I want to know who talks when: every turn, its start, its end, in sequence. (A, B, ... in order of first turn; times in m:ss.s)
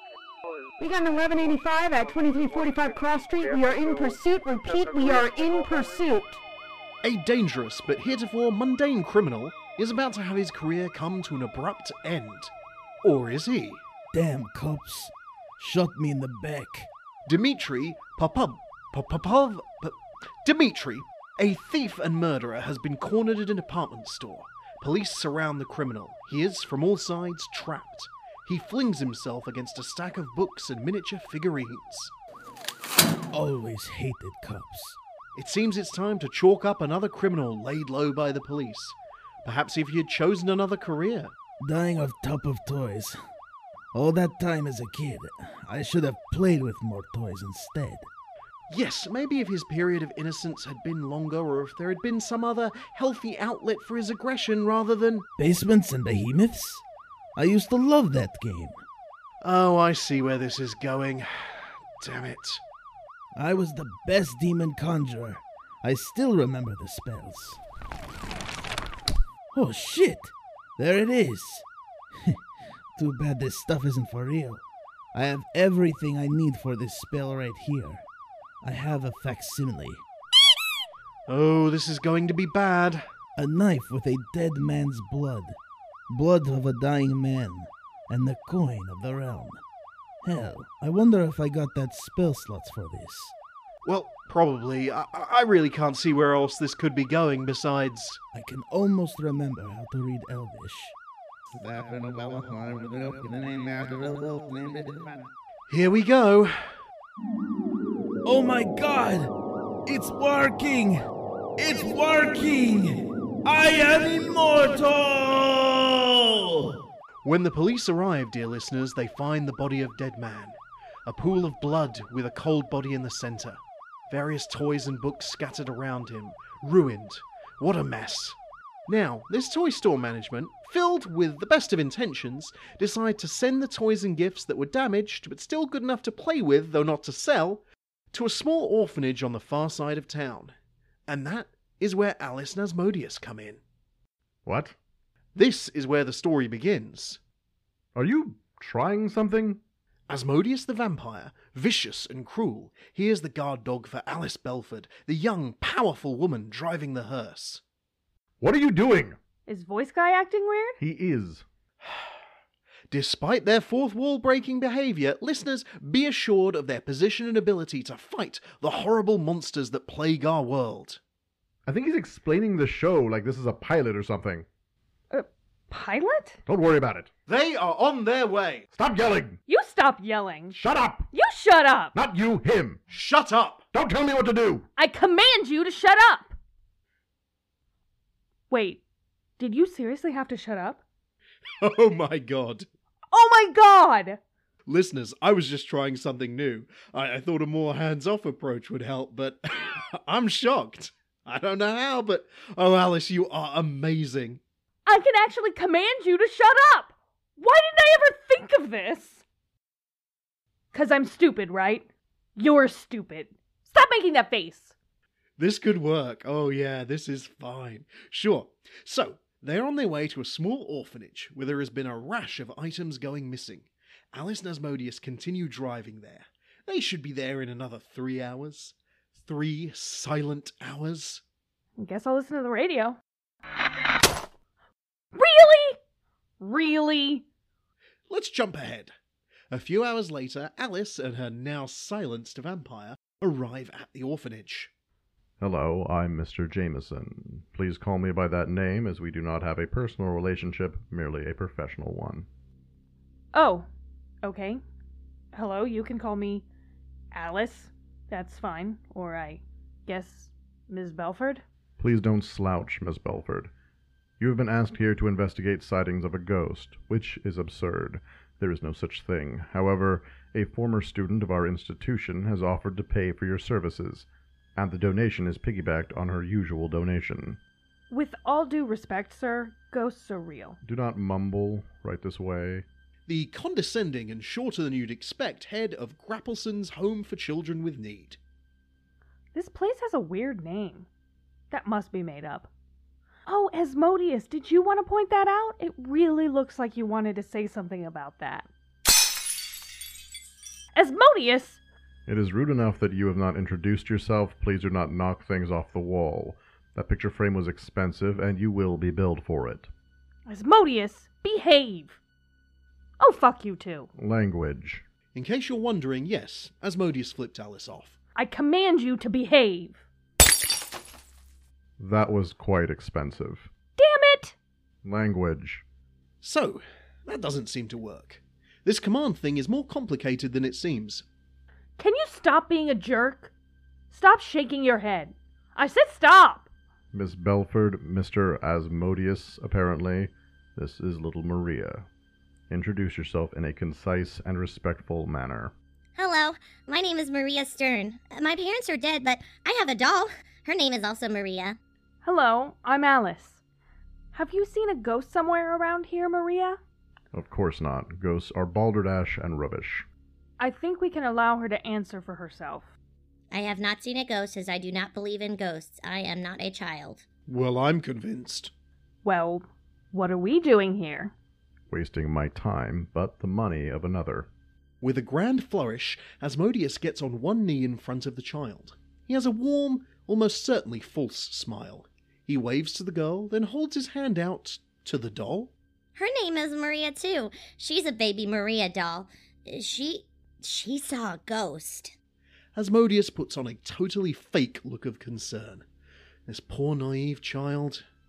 0:00.8-0:06.4 A
0:07.0-0:12.5 B
0:13.0-0:13.8 B
0:14.1-0:16.9 C
0:17.3-0:32.1 B
0:33.3-0:35.0 C
0:35.4-0:41.3 B
0:41.6-0:43.2 C
0:43.9-0:48.1 C
0:48.7-0:55.3 B
0:55.4-0:56.8 C
0:57.4-0:58.8 C
0:59.4-1:02.6 B
1:03.4-1:07.6 C
1:09.5-1:11.6 C
1:13.0-1:14.6 C
1:15.1-1:18.1 C
1:18.6-1:20.0 C
1:21.3-1:23.0 B
1:23.4-1:25.6 C
1:26.1-1:29.6 C
1:30.2-1:33.3 C
1:33.8-1:38.2 B
1:38.3-1:41.0 C
1:41.6-1:45.3 C
1:45.7-1:46.6 B
1:48.2-1:49.3 C
1:49.9-1:51.0 C
1:51.6-1:56.8 C
1:57.2-2:20.5 B
2:21.1-2:23.6 B
2:24.5-2:24.8 D
2:25.4-2:27.2 B
2:28.0-2:29.6 D
2:30.1-2:37.6 B
2:38.4-2:39.2 D
2:39.5-2:40.8 E
2:40.8-2:41.4 D
2:41.8-2:42.1 B
2:42.9-2:51.0 B
2:51.7-2:54.5 D
2:55.1-2:56.4 E
2:56.5-2:57.1 D
2:57.3-2:58.7 B
2:58.8-2:59.4 D
2:59.5-3:00.6 E
3:00.5-3:01.1 D
3:01.1-3:02.0 E
3:02.0-3:02.8 D
3:02.9-3:03.6 B
3:03.7-3:04.7 D
3:04.8-3:06.4 E
3:08.5-3:08.8 E
3:09.4-3:10.8 E
3:11.6-3:12.7 B
3:13.1-3:14.2 E
3:14.7-3:24.4 B
3:24.9-3:29.2 E
3:30.7-3:31.9 E
3:32.4-3:34.8 E
3:35.4-3:51.2 B
3:51.8-3:53.0 E
3:55.1-3:55.8 E
3:56.4-3:57.2 E
3:58.1-3:58.9 B
3:59.5-4:04.7 B
4:05.4-4:12.3 D
4:13.3-4:13.7 E
4:14.2-4:14.6 E
4:15.3-4:16.4 E
4:17.1-4:21.4 E
4:21.8-4:23.5 D
4:24.2-4:37.4 D
4:37.9-4:40.6 E
4:40.6-4:42.6 D
4:43.1-4:48.2 B
4:49.3-4:50.9 E
4:51.5-4:52.5 E
4:53.3-4:58.5 E
5:00.8-5:01.6 E
5:02.1-5:09.7 D
5:10.3-5:12.0 E
5:13.0-5:13.9 E
5:14.0-5:14.8 D
5:15.1-5:18.0 B
5:18.2-5:19.8 E
5:21.8-5:23.5 D
5:23.8-5:24.4 E
5:24.8-5:25.6 D
5:26.2-5:31.0 B
5:31.8-5:33.3 E
5:33.9-5:36.5 E
5:36.9-5:41.9 D
5:42.5-5:45.5 D
5:46.0-5:51.6 F
5:52.0-5:53.4 E
5:54.1-5:56.6 E
5:57.1-5:59.9 D
6:00.4-6:02.7 E
6:03.3-6:07.0 F
6:07.3-6:08.5 B
6:09.0-6:11.1 E
6:11.7-6:14.3 D
6:14.8-6:25.5 B
6:26.0-6:31.9 F
6:32.6-6:35.6 B
6:36.3-6:37.8 B